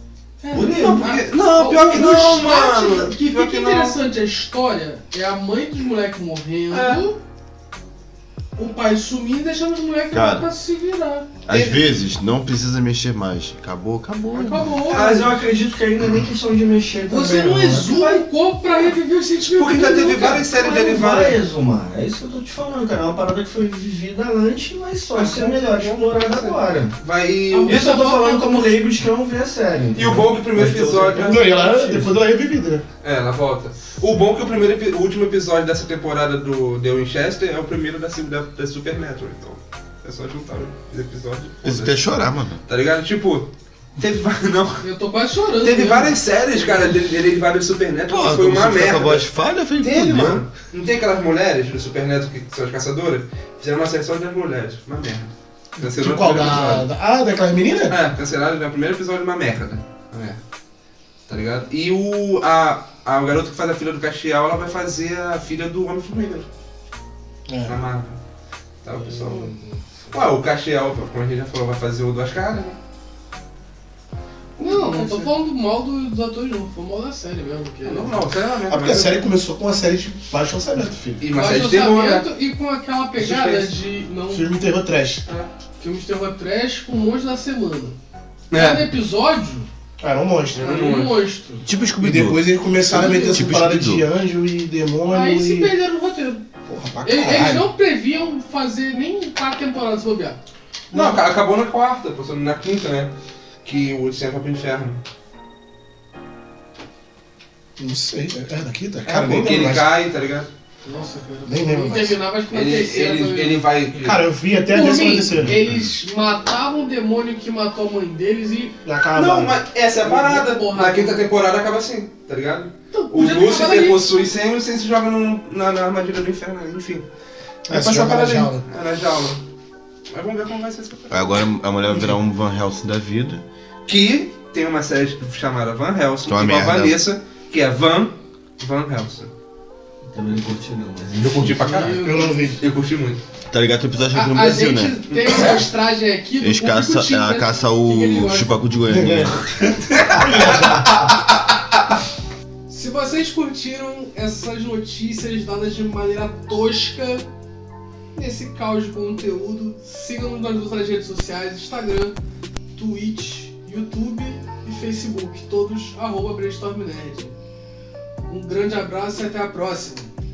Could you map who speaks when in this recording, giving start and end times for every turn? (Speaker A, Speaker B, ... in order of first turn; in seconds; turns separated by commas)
Speaker A: 0.4-7.2, Speaker B: 0.5-1.1, Speaker C: 0.7-4.0, Speaker C: 6.7-7.0, Speaker A: 8.6-11.3, Speaker D: 10.1-10.5, Speaker D: 11.5-14.9, Speaker A: 14.3-15.4, Speaker B: 14.9-18.3, Speaker A: 17.1-20.5, Speaker C: 19.5-21.4, Speaker B: 20.4-26.9, Speaker C: 25.1-27.8, Speaker A: 27.5-28.8, Speaker B: 27.6-32.1, Speaker C: 29.9-31.5, Speaker E: 31.2-32.8, Speaker C: 33.0-42.1, Speaker D: 41.6-42.6, Speaker C: 42.7-44.9, Speaker A: 44.8-46.8, Speaker C: 45.6-49.3, Speaker D: 48.1-50.4, Speaker C: 49.8-56.9, Speaker E: 55.8-58.0, Speaker C: 57.9-60.4, Speaker C: 61.3-66.5, Speaker E: 67.5-67.8, Speaker C: 67.6-68.2, Speaker C: 68.8-69.5, Speaker C: 70.1-72.8, Speaker A: 74.6-78.2, Speaker E: 74.6-75.3, Speaker C: 77.8-79.2, Speaker E: 78.7-81.2, Speaker C: 81.2-82.3, Speaker A: 81.3-84.5, Speaker C: 83.2-83.7, Speaker E: 84.3-85.2, Speaker A: 85.8-88.0, Speaker C: 88.5-88.9, Speaker A: 88.5-89.7, Speaker E: 90.0-90.7, Speaker C: 90.5-91.2, Speaker A: 90.6-91.6, Speaker D: 91.6-94.1, Speaker E: 92.0-95.7, Speaker A: 92.9-93.5, Speaker A: 95.1-96.4, Speaker E: 96.7-97.7, Speaker A: 97.0-100.4, Speaker E: 100.9-101.2, Speaker C: 100.9-105.0, Speaker E: 107.8-109.9, Speaker C: 109.0-110.5, Speaker A: 110.8-113.7, Speaker E: 111.5-112.2, Speaker C: 112.5-114.3, Speaker E: 114.0-115.6, Speaker A: 114.6-118.8, Speaker E: 118.8-119.6, Speaker C: 119.1-127.1, Speaker A: 120.0-121.3, Speaker A: 122.9-124.3, Speaker E: 127.7-128.6, Speaker C: 127.7-129.4, Speaker C: 130.1-131.4, Speaker D: 131.1-133.4, Speaker C: 133.9-139.3, Speaker D: 136.2-137.1, Speaker B: 140.1-141.9, Speaker C: 141.2-143.2, Speaker A: 141.6-142.5, Speaker E: 142.0-142.6, Speaker D: 143.5-145.1, Speaker A: 144.1-148.6, Speaker C: 145.1-145.5, Speaker D: 146.4-149.5, Speaker C: 149.9-150.8, Speaker E: 150.1-150.9, Speaker A: 152.7-157.3, Speaker A: 158.2-162.2, Speaker A: 162.8-167.3, Speaker A: 168.2-170.1